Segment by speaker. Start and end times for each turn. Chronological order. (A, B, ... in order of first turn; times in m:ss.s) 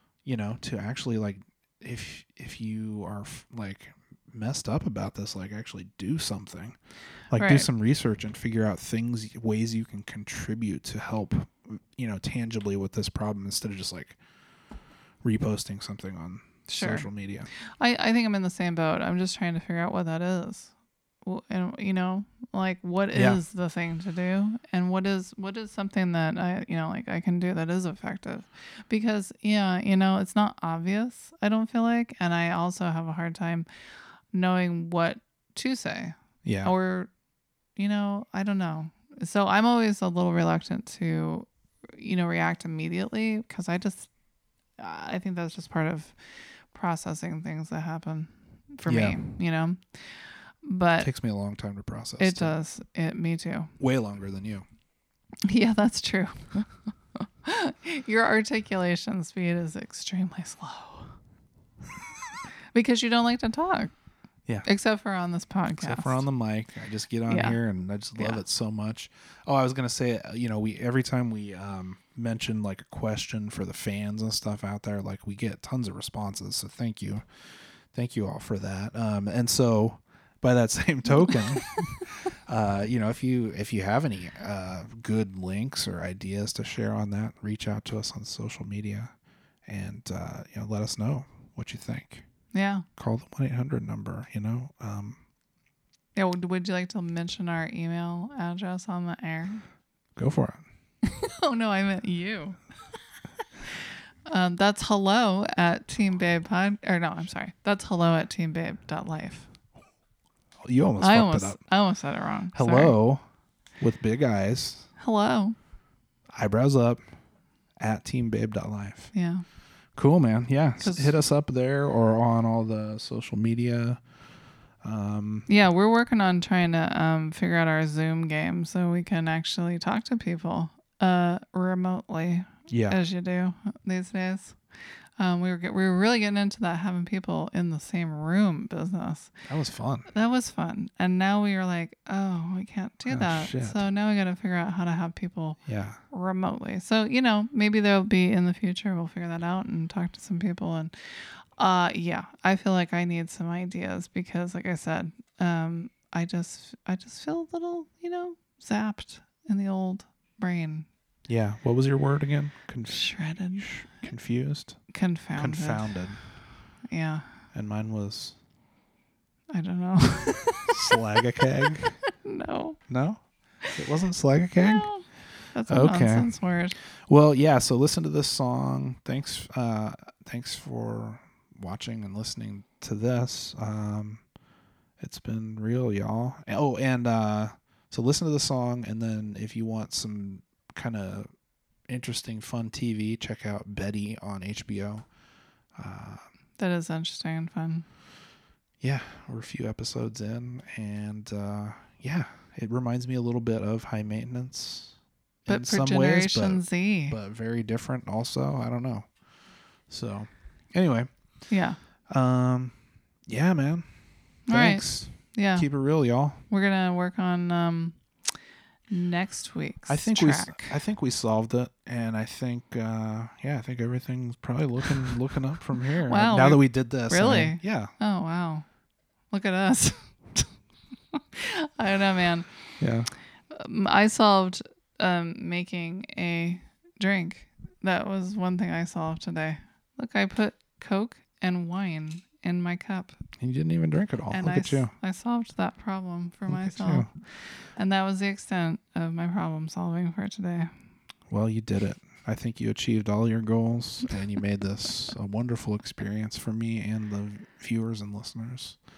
0:00.2-0:06.8 A
0:07.3-0:14.2 A
0:07.4-0:07.7 B
0:15.2-0:17.5 A
0:16.7-0:20.7 B
0:21.2-0:33.7 B
0:23.1-0:23.4 A
0:34.3-0:37.1 B
0:36.4-0:36.7 A
0:37.8-0:44.1 B
0:44.8-0:46.2 B
0:46.7-0:51.1 B
0:48.9-0:49.3 A
0:51.0-0:52.6 A
0:52.2-0:53.7 B
0:53.8-0:54.6 A
0:55.5-1:01.2 B
1:02.7-1:03.9 B
1:04.6-1:06.2 B
1:05.8-1:17.2 A
1:07.3-1:07.6 B
1:17.9-1:29.1 A
1:21.3-1:21.8 B
1:29.7-1:32.2 A
1:32.5-1:32.9 B
1:33.0-1:35.2 A
1:36.2-1:39.6 B
1:40.2-1:40.6 A
1:41.0-1:42.6 B
1:44.3-1:49.5 B
1:50.6-1:51.6 A
1:51.0-1:53.0 B
1:52.5-1:53.2 A
1:53.8-1:54.9 A
1:55.0-1:55.6 B
1:56.3-1:57.0 A
1:57.8-1:59.1 A
1:59.1-1:59.4 B
2:00.0-2:04.0 A
2:00.8-2:01.1 B
2:04.8-2:05.5 A
2:05.5-2:14.6 B
2:12.7-2:13.0 A
2:15.2-2:19.3 B
2:19.5-2:20.1 A
2:20.1-2:25.6 B
2:23.1-2:23.8 A
2:25.7-2:26.0 A
2:26.1-2:40.9 B
2:41.3-2:44.8 A
2:42.9-2:43.7 B
2:44.9-2:46.0 B
2:45.4-2:46.2 A
2:46.9-2:47.3 B
2:47.5-2:48.4 A
2:49.5-2:50.9 B
2:50.7-2:52.0 A
2:52.1-2:52.8 B
2:52.9-2:54.9 A
2:54.6-2:56.8 B
2:55.7-2:56.3 A
2:57.1-3:04.2 A
3:05.0-3:11.3 A
3:11.9-3:15.1 A
3:15.8-3:16.2 A
3:16.6-3:17.9 B
3:18.8-3:29.1 A
3:25.5-3:27.2 B
3:29.9-3:31.1 A
3:31.5-3:31.8 B
3:32.1-3:33.9 A
3:34.5-3:35.7 B
3:34.5-3:36.4 A
3:36.5-3:38.0 B
3:38.9-3:40.8 B
3:39.9-3:47.9 A
3:46.0-3:48.7 B
3:49.3-3:50.5 B
3:51.1-3:52.5 B
3:52.8-3:53.1 A
3:53.5-4:03.2 B
4:03.4-4:04.9 A
4:04.3-4:07.1 B
4:06.5-4:07.1 A
4:07.8-4:10.7 B
4:11.3-4:18.8 A